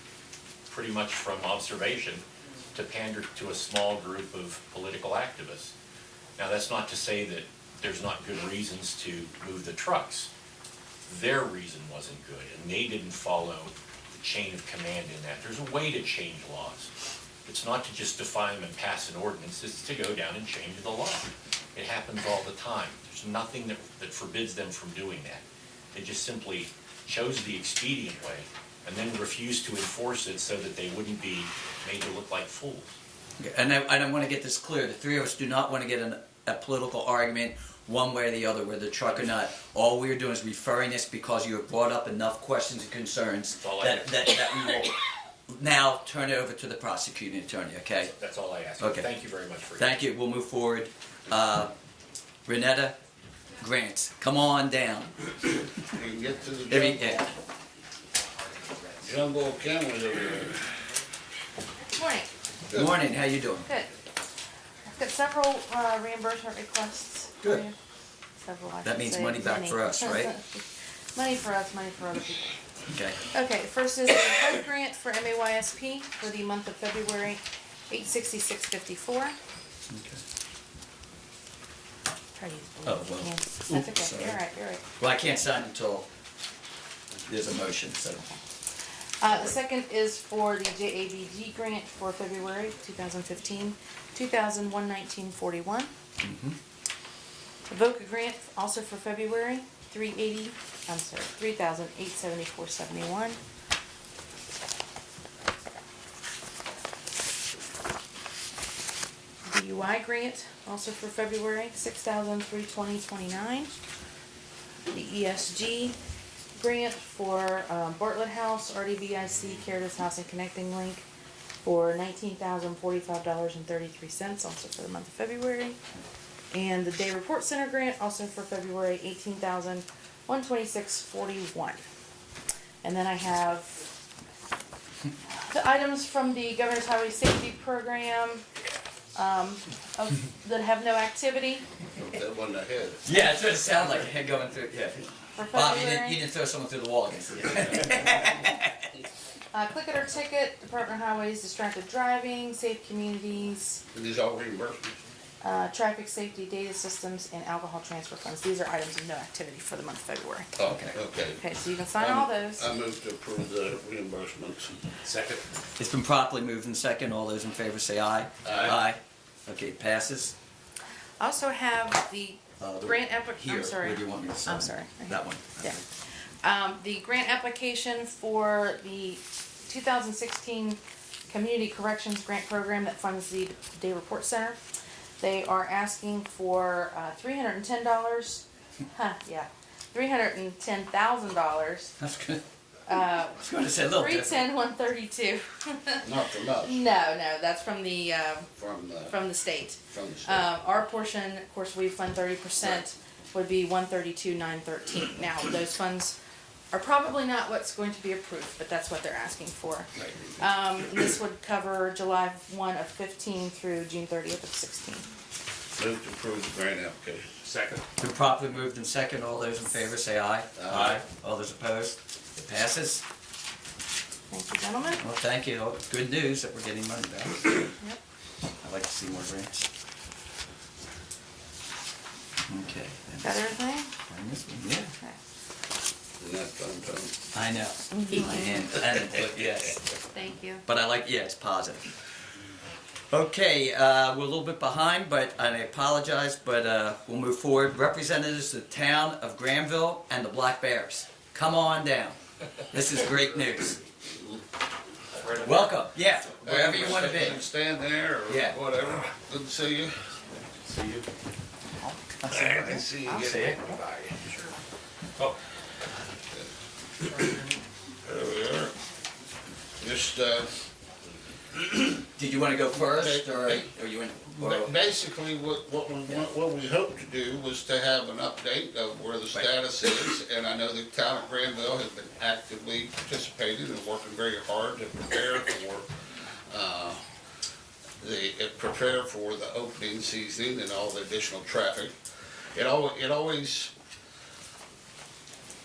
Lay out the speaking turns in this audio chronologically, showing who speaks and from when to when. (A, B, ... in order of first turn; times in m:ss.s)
0:00.7-0:02.2 A
0:02.7-0:05.7 A
0:06.4-0:10.3 A
0:11.1-0:16.9 A
0:17.4-0:25.4 A
0:25.9-0:33.0 A
0:33.4-0:45.0 B
0:43.6-0:44.3 A
0:45.5-0:48.1 B
0:48.0-0:50.0 A
0:48.8-0:49.1 B
0:49.8-0:51.7 B
0:52.4-0:53.0 B
0:53.6-0:55.1 B
0:55.8-0:57.1 C
0:56.7-0:57.3 B
0:59.0-1:00.7 C
1:01.9-1:02.3 D
1:02.7-1:03.0 C
1:02.7-1:03.7 B
1:03.6-1:03.9 D
1:04.8-1:07.7 D
1:08.4-1:12.6 D
1:08.8-1:10.3 B
1:12.9-1:13.2 B
1:13.3-1:19.4 D
1:19.9-1:20.2 B
1:22.4-1:24.8 D
1:22.8-1:24.4 B
1:25.0-1:26.1 B
1:27.2-1:28.2 B
1:28.1-1:28.4 D
1:29.2-1:35.9 D
1:36.2-1:36.6 B
1:37.7-1:43.4 D
1:49.4-1:53.7 D
1:54.9-1:56.0 D
1:56.5-2:01.0 D
2:01.6-2:05.8 D
2:06.5-2:11.8 D
2:12.8-2:13.8 D
2:15.4-2:18.4 D
2:19.1-2:21.6 D
2:21.9-2:23.0 C
2:23.0-2:28.6 B
2:25.4-2:26.2 D
2:29.5-2:33.8 D
2:33.9-2:34.9 C
2:35.4-2:40.5 D
2:40.6-2:41.4 C
2:40.7-2:40.9 B
2:41.3-2:42.7 D
2:42.0-2:44.8 C
2:45.0-2:45.4 A
2:45.8-2:50.3 B
2:48.4-2:48.8 C
2:51.2-2:55.8 D
2:52.6-2:55.8 B
2:56.4-3:04.6 D
3:05.2-3:11.9 D
3:12.0-3:12.4 B
3:12.9-3:16.1 D
3:13.4-3:14.5 B
3:16.0-3:16.8 C
3:16.6-3:18.5 D
3:18.5-3:19.3 C
3:19.0-3:26.2 D
3:19.9-3:20.5 C
3:26.7-3:35.1 D
3:35.8-3:37.2 C
3:37.4-3:37.8 A
3:38.0-3:43.0 B
3:40.6-3:40.9 C
3:44.3-3:45.0 D
3:45.0-3:47.7 B
3:48.6-3:49.7 B
3:52.4-3:54.9 B
3:53.2-3:53.9 D
3:56.2-3:57.1 C
3:57.3-3:59.8 B
3:57.9-3:58.5 D
4:00.1-4:00.6 D
4:00.6-4:01.9 B
4:03.1-4:12.2 B
4:12.7-4:13.8 B
4:14.1-4:14.4 C
4:15.2-4:15.5 A
4:15.3-4:17.4 B
4:16.4-4:20.0 C
4:18.3-4:18.6 B
4:20.6-4:21.0 A
4:21.8-4:23.7 B
4:22.3-4:24.4 C
4:27.0-4:27.3 C
4:28.0-4:28.7 C
4:29.8-4:30.5 C
4:32.2-4:34.7 B
4:32.8-4:33.7 C
4:34.3-4:45.9 C
4:46.5-4:47.0 C
4:48.0-4:51.9 C
4:52.5-4:53.7 C